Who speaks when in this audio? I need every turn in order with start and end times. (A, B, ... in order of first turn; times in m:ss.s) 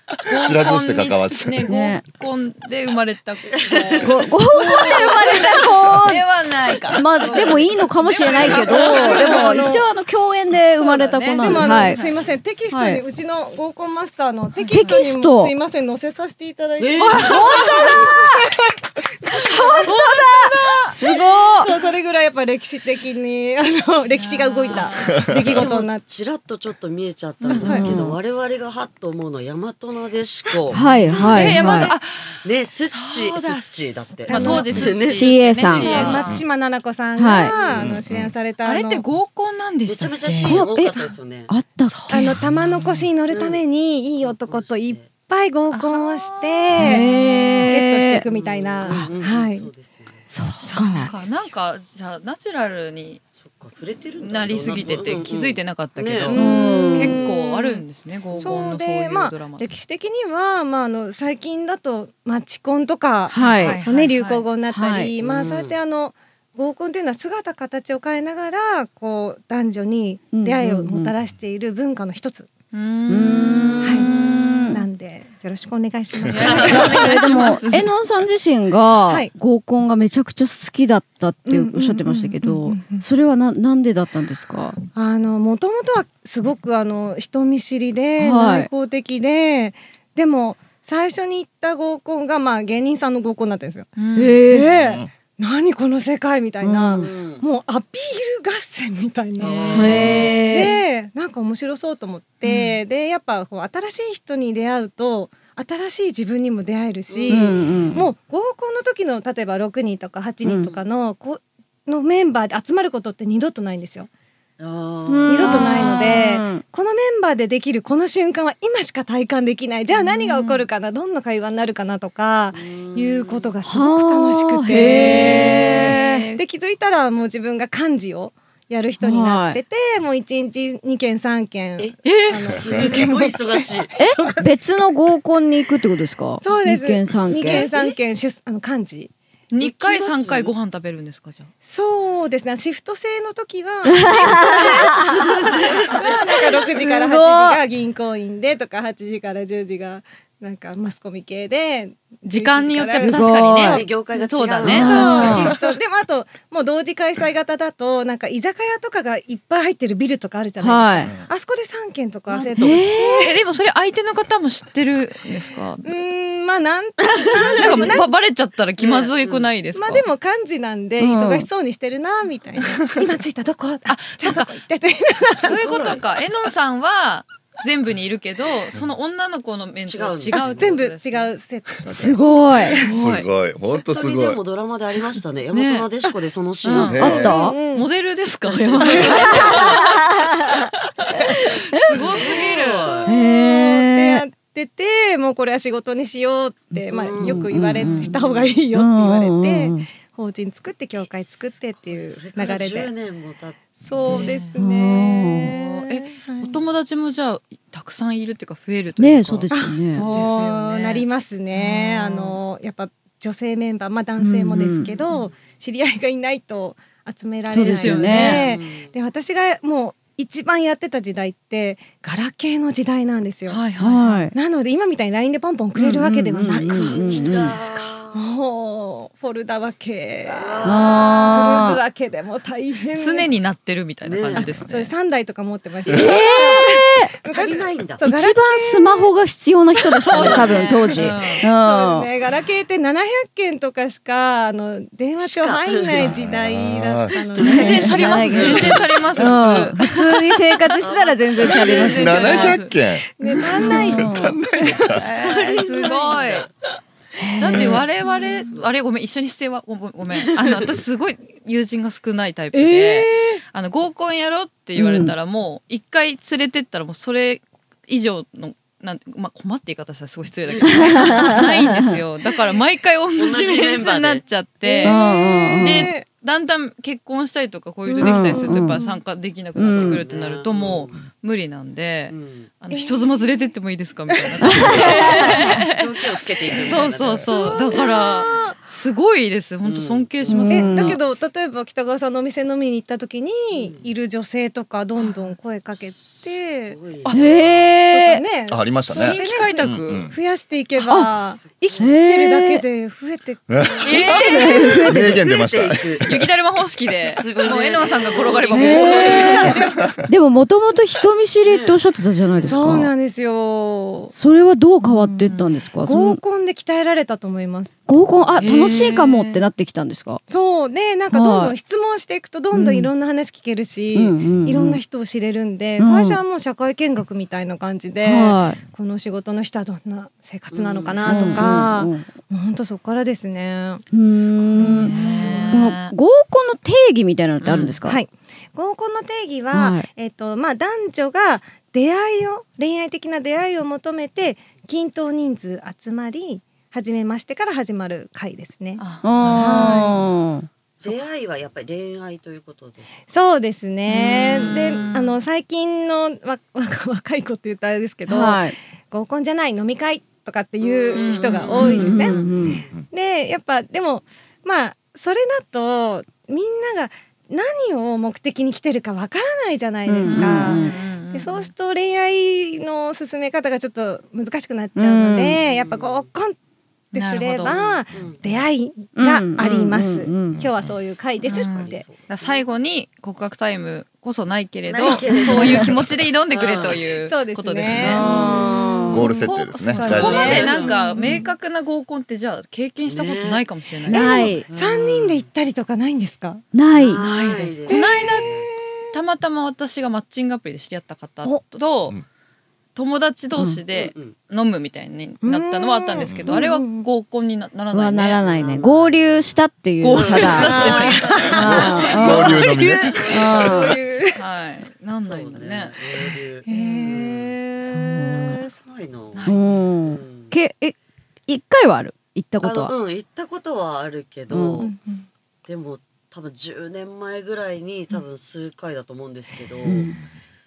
0:00.2-0:09.6 A
0:00.3-0:01.7 B
0:01.7-0:02.0 C
0:03.5-0:04.2 D
0:04.0-0:06.2 C
0:04.4-0:05.8 E
0:06.9-0:12.0 C
0:07.2-0:07.7 E
0:08.3-0:09.8 E
0:10.7-0:12.2 A
0:11.4-0:26.0 E
0:11.9-0:12.3 D
0:12.7-0:13.0 C
0:14.6-0:14.9 A
0:14.7-0:15.5 C
0:16.8-0:18.1 D
0:17.0-0:18.4 C
0:19.3-0:21.7 C
0:24.1-0:25.2 A
0:24.7-0:36.4 D
0:25.1-0:25.6 B
0:27.4-0:27.8 A
0:27.5-0:27.9 E
0:27.5-0:28.2 C
0:30.7-0:31.9 C
0:31.1-0:31.9 E
0:31.1-0:36.4 A
0:34.3-0:34.8 E
0:35.1-0:35.9 C
0:35.7-0:39.0 E
0:37.2-0:37.5 C
0:37.4-0:37.9 D
0:37.7-0:38.3 B
0:38.6-0:40.6 A
0:39.8-0:41.5 D
0:40.4-0:40.9 C
0:41.5-0:42.3 C
0:41.8-0:43.0 A
0:42.1-0:47.1 E
0:43.3-0:43.6 D
0:44.2-0:45.1 D
0:45.7-0:47.7 A
0:46.8-0:48.2 C
0:47.6-0:49.7 E
0:48.2-0:50.3 D
0:50.3-0:51.1 C
0:50.4-0:53.2 A
0:50.6-0:51.2 E
0:53.4-0:56.3 D
0:54.2-0:59.7 A
0:56.3-0:57.8 E
0:56.3-0:57.2 C
0:58.3-0:58.6 D
0:58.4-1:12.5 E
1:03.3-1:03.8 C
1:03.4-1:04.5 A
1:04.7-1:05.1 C
1:05.2-1:05.8 D
1:10.3-1:11.1 C
1:12.7-1:14.8 A
1:13.1-1:14.8 C
1:13.8-1:14.1 E
1:14.7-1:17.2 E
1:16.3-1:17.9 A
1:16.6-1:24.8 C
1:21.5-1:23.0 E
1:24.9-1:33.9 E
1:28.2-1:28.7 C
1:34.0-1:34.4 A
1:34.2-1:34.7 C
1:34.5-1:54.1 E
1:34.7-1:35.1 B
1:36.6-1:37.1 C
1:36.9-1:37.4 D
1:39.4-1:40.5 D
1:39.7-1:40.7 C
1:40.0-1:40.3 B
1:42.4-1:42.8 A
1:47.1-1:47.8 D
1:47.3-1:48.1 C
1:50.4-1:50.7 C
1:54.6-1:55.9 D
1:55.0-1:56.6 C
1:55.3-2:14.6 E
1:55.4-1:56.1 A
2:00.0-2:00.6 A
2:02.5-2:03.5 D
2:03.6-2:06.2 C
2:04.7-2:06.4 A
2:09.0-2:09.6 C
2:11.8-2:13.9 D
2:12.0-2:12.6 A
2:14.0-2:17.7 C
2:16.4-2:19.1 E
2:17.5-2:17.9 D
2:19.5-2:21.5 A
2:19.6-2:20.5 D
2:21.6-2:33.9 E
2:23.8-2:25.1 C
2:24.9-2:26.4 D
2:26.7-2:27.6 C
2:32.2-2:35.6 A
2:33.0-2:33.8 C
2:33.6-2:35.6 D
2:34.6-2:43.4 E
2:34.6-2:35.5 C
2:40.6-2:41.1 C
2:42.3-2:42.8 D
2:42.6-2:43.2 C
2:43.2-2:45.9 A
2:45.8-2:48.1 E
2:47.1-2:48.0 D
2:47.5-2:50.0 A
2:48.8-2:49.5 D
2:49.7-2:55.9 E
2:51.0-2:51.5 C
2:53.8-2:54.6 A
2:55.4-3:01.3 A
2:55.6-2:56.0 D
2:59.8-3:00.8 D
3:00.4-3:03.1 E
3:01.9-3:02.8 C
3:02.8-3:03.3 A
3:02.9-3:04.4 B
3:03.8-3:07.3 D
3:05.5-3:05.9 A
3:06.6-3:09.8 A
3:06.8-3:07.3 B
3:06.9-3:07.8 E
3:07.0-3:07.6 C
3:08.5-3:09.8 D
3:08.8-3:09.9 E
3:09.4-3:10.6 C
3:11.0-3:22.9 E
3:11.7-3:12.9 A
3:11.8-3:13.1 D
3:13.0-3:14.2 C
3:16.9-3:18.6 D
3:17.2-3:18.1 C
3:18.7-3:19.8 C
3:21.0-3:24.4 D
3:23.8-3:26.6 E
3:24.0-3:32.4 A
3:24.5-3:25.5 C
3:29.0-3:30.0 C
3:29.5-3:43.6 E
3:34.2-3:34.9 C
3:35.1-3:35.5 D
3:37.5-3:38.4 C
3:37.6-3:38.5 A
3:38.1-3:38.9 D
3:43.5-3:44.2 A
3:43.8-3:44.3 C
3:44.3-3:47.4 E
3:45.8-3:47.6 C
3:46.4-3:48.2 D
3:47.2-3:47.9 A
3:48.1-3:53.3 E
3:50.2-3:51.6 D
3:50.6-3:51.8 C
3:52.9-3:54.9 A
3:54.0-3:54.6 D
3:54.4-3:59.1 E
3:55.9-3:56.5 D
3:55.9-3:57.1 C
3:57.3-3:58.0 D
3:58.0-4:02.1 C
4:00.0-4:01.4 A
4:00.1-4:08.6 E
4:05.2-4:06.2 D
4:06.0-4:07.2 B
4:07.3-4:09.5 D
4:07.4-4:10.0 A
4:07.4-4:12.6 C
4:08.2-4:08.8 B
4:10.8-4:12.2 D
4:11.4-4:12.7 A
4:12.0-4:15.0 B
4:13.2-4:15.0 E
4:13.6-4:14.4 C
4:14.9-4:16.4 A
4:15.0-4:16.5 D
4:15.5-4:16.1 E
4:17.2-4:17.8 C
4:17.4-4:18.5 E
4:17.4-4:35.0 A
4:18.4-4:18.7 D
4:20.1-4:20.7 D
4:22.5-4:23.4 E
4:24.8-4:25.1 C
4:30.5-4:31.4 D
4:30.6-4:32.0 C
4:33.2-4:34.2 D
4:34.6-4:36.0 E
4:34.8-4:35.9 C
4:35.6-4:51.0 A
4:37.9-4:39.0 E
4:38.0-4:38.8 C
4:39.6-4:40.0 C
4:39.6-4:41.0 D
4:42.1-4:42.5 D
4:42.7-4:43.4 E
4:44.3-4:45.5 E
4:44.4-4:45.4 C
4:44.6-4:47.3 D
4:46.5-4:48.6 E
4:49.6-4:50.5 D
4:50.3-4:51.0 C
4:50.5-4:56.8 E
4:53.5-4:53.9 D
4:55.0-4:55.3 A
4:56.0-4:57.7 D
4:57.1-4:58.2 C
4:57.9-5:04.9 E
4:58.5-5:00.1 B
4:58.9-5:00.0 A
5:00.8-5:01.1 C
5:01.4-5:02.0 D
5:01.8-5:02.6 C
5:03.5-5:04.0 B
5:03.8-5:04.4 D
5:03.8-5:04.7 A
5:04.1-5:05.2 C
5:04.9-5:06.1 B
5:05.0-5:06.2 D
5:06.0-5:09.7 A
5:07.0-5:09.7 D
5:08.5-5:09.6 C
5:08.9-5:09.9 E
5:10.1-5:12.9 C
5:11.4-5:11.8 D
5:12.4-5:12.8 D
5:12.4-5:14.1 E
5:14.1-5:16.2 C
5:14.8-5:15.2 E
5:15.8-5:17.8 E
5:17.9-5:20.2 C
5:18.4-5:19.4 A
5:18.4-5:18.8 E
5:20.3-5:35.6 E
5:21.1-5:21.5 C
5:22.5-5:22.9 C
5:23.9-5:24.8 C
5:25.8-5:26.2 C
5:28.0-5:28.6 C
5:30.5-5:31.4 D
5:31.0-5:32.1 C
5:33.9-5:38.0 C
5:34.5-5:35.9 A
5:37.4-5:37.8 A
5:37.8-5:48.8 E
5:39.5-5:39.9 C
5:48.8-5:50.0 A
5:49.0-5:50.5 C
5:49.3-5:50.0 E
5:50.8-5:53.0 D
5:53.1-6:16.4 E
5:53.9-5:55.2 A
5:54.4-5:54.9 D
5:58.1-5:58.5 C
6:00.6-6:01.9 D
6:00.9-6:02.3 A
6:01.6-6:02.6 C
6:09.8-6:10.7 C
6:10.0-6:11.5 A
6:14.8-6:15.4 C
6:15.4-6:16.1 D
6:16.9-6:17.8 A
6:16.9-6:21.8 E
6:17.9-6:18.4 D
6:19.0-6:20.4 C
6:21.3-6:22.4 D
6:21.3-6:34.3 A
6:24.7-6:26.9 D
6:25.4-6:25.6 C
6:27.0-6:28.3 E
6:27.7-6:29.0 D
6:27.8-6:29.0 C
6:28.9-6:31.3 E
6:28.9-6:30.5 B
6:29.8-6:31.2 D
6:32.9-6:33.4 D
6:33.9-6:36.4 E
6:33.9-6:34.4 C
6:34.4-6:35.3 D
6:36.5-6:37.0 C
6:36.7-6:38.5 D
6:37.0-6:38.4 A
6:37.7-6:38.9 E
6:38.9-6:42.0 A
6:42.7-6:48.2 A
6:43.7-6:44.2 D
6:45.2-6:46.9 E
6:46.0-6:46.4 B
6:47.7-6:50.6 C
6:48.2-6:49.3 D
6:49.8-6:51.9 A
6:49.9-6:53.8 D
6:50.3-6:54.2 E
6:51.3-6:52.4 C
6:51.4-6:53.0 B
6:53.1-6:53.8 C
6:54.1-6:55.8 A
6:54.9-6:57.4 D
6:56.4-6:58.5 E
6:57.7-6:58.4 C
6:58.1-7:00.3 D
6:59.1-6:59.4 A
6:59.2-7:00.7 C
7:01.3-7:02.7 C
7:02.4-7:04.7 D
7:04.3-7:04.6 C
7:04.6-7:05.0 E
7:05.4-7:09.9 D
7:09.6-7:10.0 C